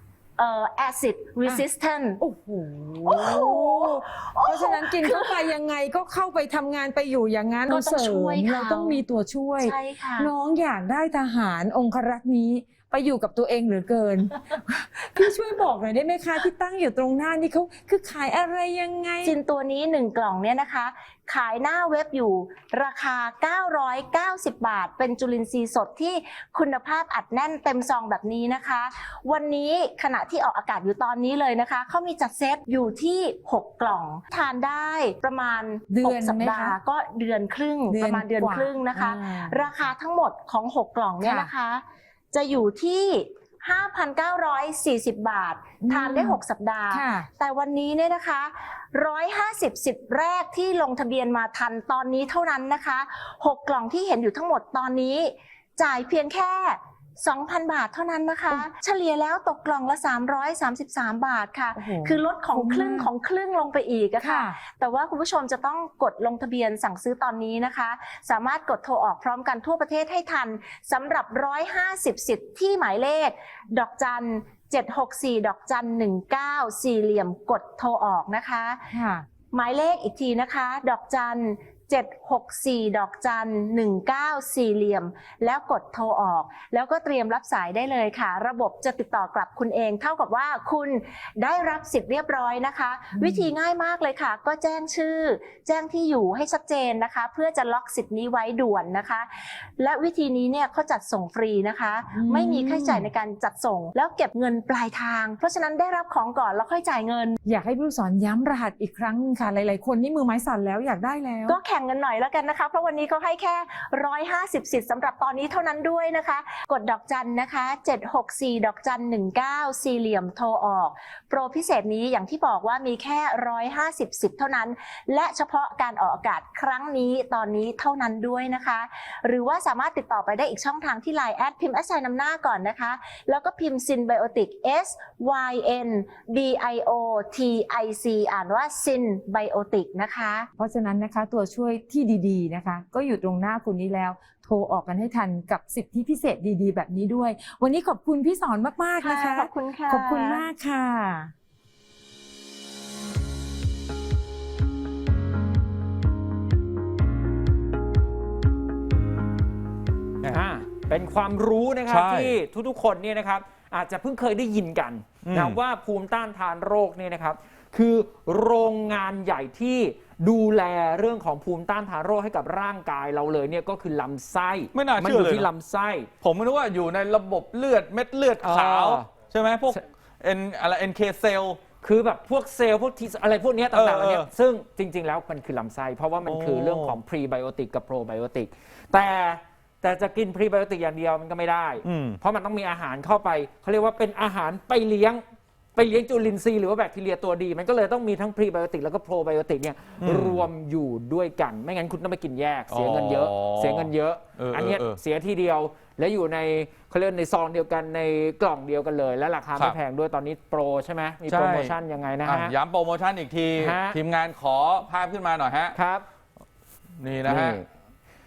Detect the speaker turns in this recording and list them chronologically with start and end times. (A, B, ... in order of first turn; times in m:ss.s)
0:00.4-0:02.2 A
0:02.2-0:19.3 B
0:03.0-0:05.5 A
0:07.7-0:09.0 A
0:09.6-0:10.3 A
0:19.2-1:18.9 A
0:35.9-0:36.8 B
0:37.9-0:39.6 B
0:41.2-0:41.5 B
0:45.8-0:47.3 B
1:01.8-1:03.1 B
1:04.2-1:04.5 B
1:18.9-1:19.3 B
1:19.5-1:47.4 A
1:33.2-1:33.5 B
1:42.1-1:43.1 B
1:47.4-1:51.6 B
1:51.5-2:20.5 A
2:20.6-2:31.3 B
2:29.0-2:30.5 A
2:40.3-2:56.1 C
2:41.9-2:42.4 D
2:45.2-2:45.6 D
2:54.7-2:55.5 D
2:56.2-3:01.6 D
2:58.4-2:59.1 C
3:01.8-3:15.2 C
3:03.7-3:04.3 D
3:06.2-3:07.0 D
3:11.8-3:12.2 D
3:15.8-3:32.5 C
3:20.0-3:20.5 D
3:22.7-3:25.0 D
3:31.2-3:35.8 D
3:33.6-3:34.0 C
3:35.7-3:36.0 C
3:37.0-3:37.6 D
3:37.2-3:37.7 C